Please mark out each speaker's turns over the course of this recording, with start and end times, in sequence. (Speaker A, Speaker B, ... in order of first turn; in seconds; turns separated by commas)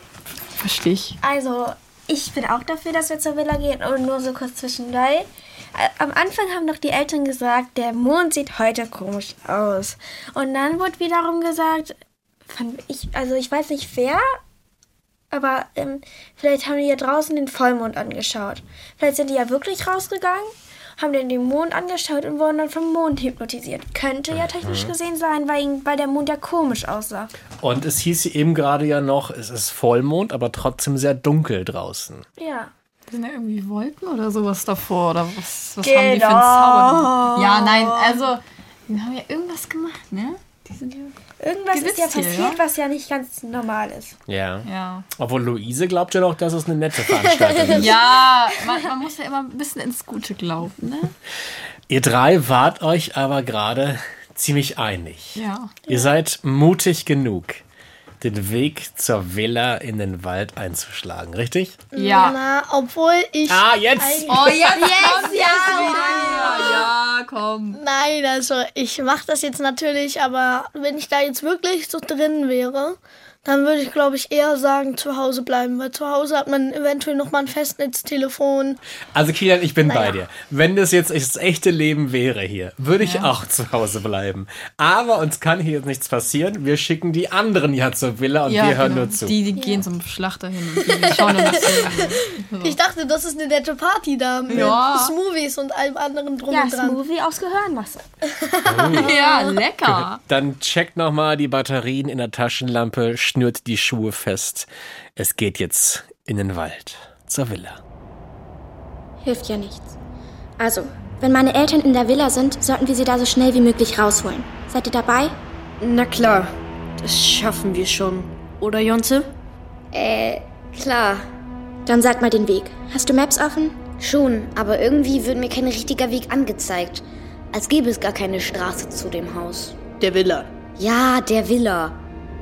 Speaker A: 0.5-1.2, Speaker B: 1.2-14.2, Speaker B: 15.3-27.3, Speaker C: 24.3-24.9, Speaker C: 27.6-32.2, Speaker B: 32.4-32.7, Speaker A: 33.1-41.1, Speaker B: 35.8-37.4, Speaker B: 41.4-44.2, Speaker A: 41.7-42.6, Speaker C: 44.3-48.0, Speaker A: 44.6-45.0, Speaker A: 47.7-51.1, Speaker C: 51.9-57.6, Speaker A: 55.3-55.8, Speaker C: 58.2-61.9, Speaker D: 61.9-66.9, Speaker A: 61.9-62.4, Speaker C: 63.5-64.5, Speaker A: 64.3-67.8, Speaker B: 64.8-66.7, Speaker D: 67.7-78.8, Speaker C: 79.1-89.4, Speaker D: 79.8-80.1, Speaker A: 83.0-83.3, Speaker A: 88.5-92.8, Speaker D: 90.8-97.0, Speaker A: 94.5-95.1, Speaker B: 96.5-98.0, Speaker D: 98.6-99.2, Speaker C: 98.6-99.1, Speaker A: 98.9-100.2, Speaker C: 99.9-107.8, Speaker E: 109.2-109.9, Speaker E: 110.6-115.3, Speaker F: 115.8-119.3, Speaker G: 119.9-121.2, Speaker E: 121.8-123.8, Speaker G: 124.0-129.8, Speaker F: 130.0-130.5, Speaker G: 130.8-132.0